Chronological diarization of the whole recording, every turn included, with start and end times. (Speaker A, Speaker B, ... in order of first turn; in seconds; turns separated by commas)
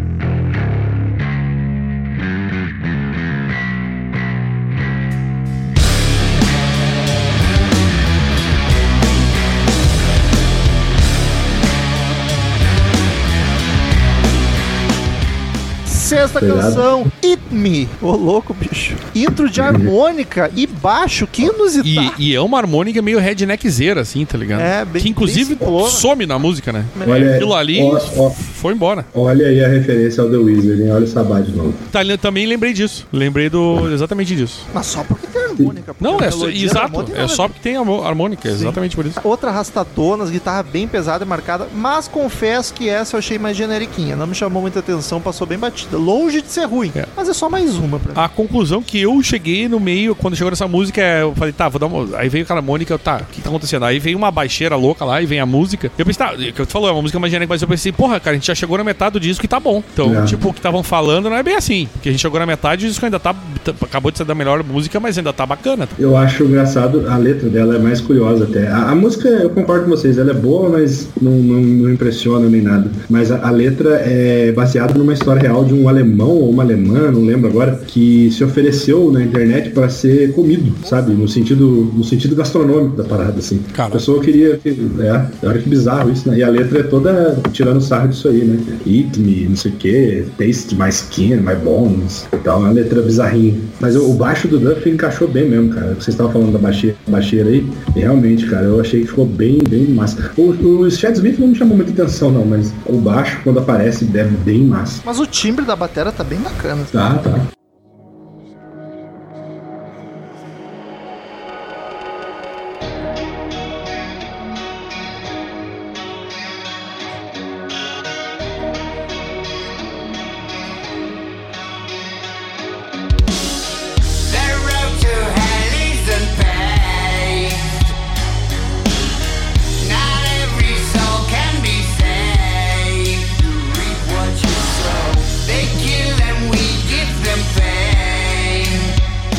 Speaker A: 15.9-22.2, Speaker B: 16.3-17.1, Speaker B: 19.6-19.9, Speaker C: 21.8-29.1, Speaker A: 24.6-26.1, Speaker A: 27.0-27.3, Speaker B: 27.0-28.4, Speaker B: 29.1-31.9, Speaker C: 31.9-34.7, Speaker A: 34.7-37.5, Speaker C: 36.0-39.2, Speaker A: 38.5-48.3, Speaker C: 48.1-66.0, Speaker B: 60.0-60.4, Speaker B: 66.0-105.0, Speaker A: 80.8-81.2, Speaker C: 83.7-84.0, Speaker A: 105.0-107.0, Speaker B: 106.9-107.5, Speaker D: 124.0-128.0, Speaker D: 129.7-138.9